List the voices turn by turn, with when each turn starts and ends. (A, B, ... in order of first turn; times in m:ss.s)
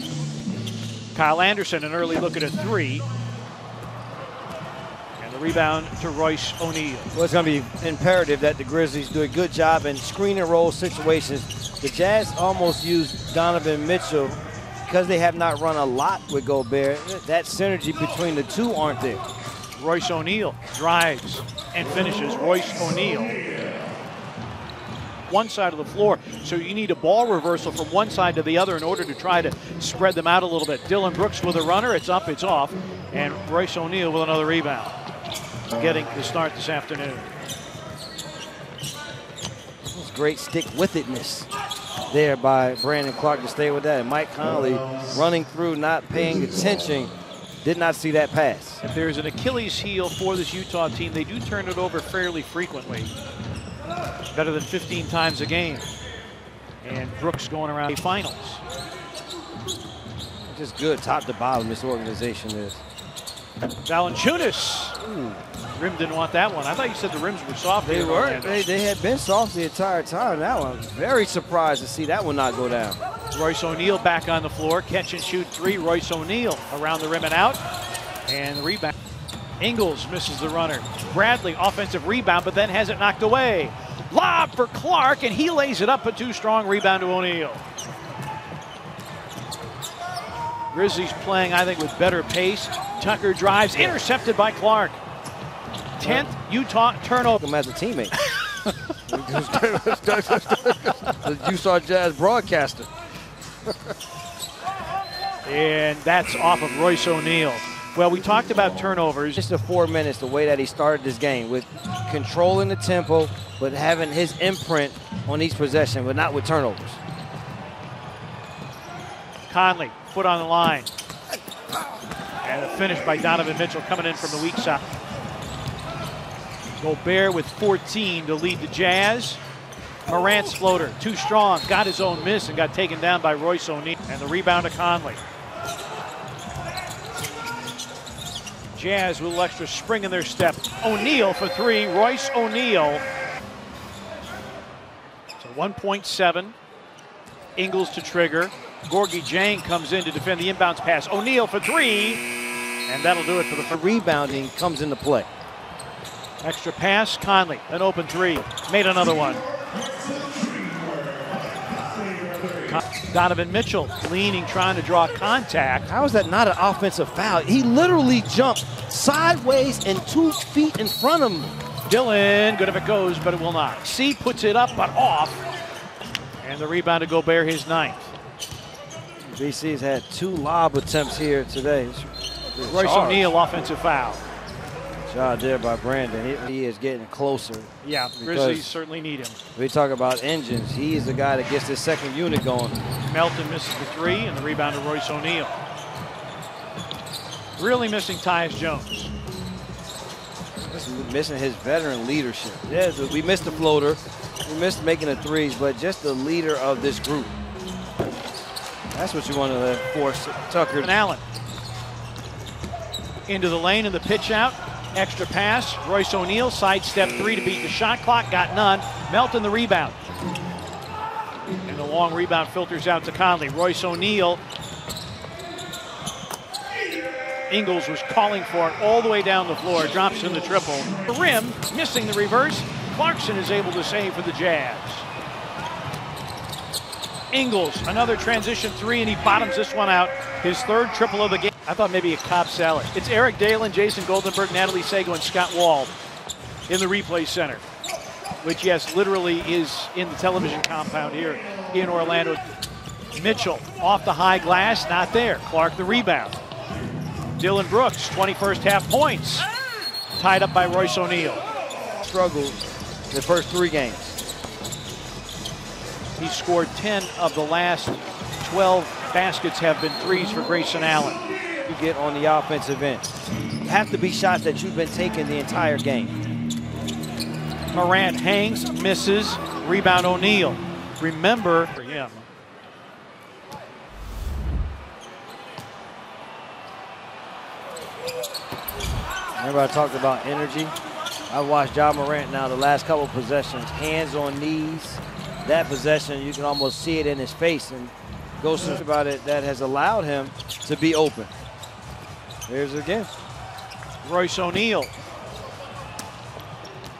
0:01.1-0:03.0 A
0:05.2-0:07.1 A
0:07.1-0:19.2 B
0:19.8-0:23.4 A
0:25.3-0:34.9 A
0:35.7-0:37.3 A
0:39.9-0:41.5 B
0:42.1-0:47.1 B
0:47.6-0:48.8 B
0:48.8-0:53.1 A
0:54.3-0:55.9 A
0:56.8-0:58.6 A
1:00.4-1:02.8 B
1:03.8-1:05.1 A
1:05.1-1:05.4 B
1:05.8-1:08.7 A
1:07.8-1:13.0 B
1:13.3-1:17.6 A
1:18.3-1:18.9 A
1:19.6-1:27.6 A
1:30.7-1:35.0 A
1:33.8-1:34.0 B
1:36.0-1:37.4 A
1:37.4-1:38.1 B
1:39.1-1:42.9 B
1:45.4-1:49.4 A
1:49.4-1:57.0 B
1:59.5-2:00.9 A
2:02.4-2:04.8 A
2:06.8-2:09.4 A
2:10.1-2:15.2 A
2:18.8-2:23.0 A
2:25.4-2:26.6 A
2:27.6-2:32.2 A
2:32.9-2:33.8 A
2:33.7-2:35.3 B
2:36.4-2:39.4 A
2:42.7-2:45.9 A
2:45.9-2:51.6 B
2:51.9-2:55.4 A
2:56.4-2:58.1 A
2:59.2-3:03.3 B
3:02.7-3:04.2 A
3:05.1-3:08.7 B
3:07.8-3:09.4 A
3:09.6-3:12.8 B
3:13.1-3:15.6 A
3:17.6-3:19.1 A
3:20.6-3:27.4 B
3:28.9-3:30.9 B
3:30.8-3:31.2 A
3:33.3-3:40.0 A
3:41.6-3:44.4 A
3:47.5-3:55.1 A
3:57.3-4:05.9 A
4:06.7-4:07.6 A
4:08.4-4:12.4 A
4:13.1-4:16.4 A
4:17.4-4:19.5 A
4:20.2-4:21.4 A
4:22.0-4:22.6 B
4:23.1-4:24.2 B
4:26.2-4:31.2 A
4:31.6-4:33.1 B
4:33.6-4:36.2 B
4:37.7-4:42.3 A
4:49.4-4:50.7 B
4:51.3-5:01.3 B
5:02.5-5:03.1 B
5:04.0-5:04.9 A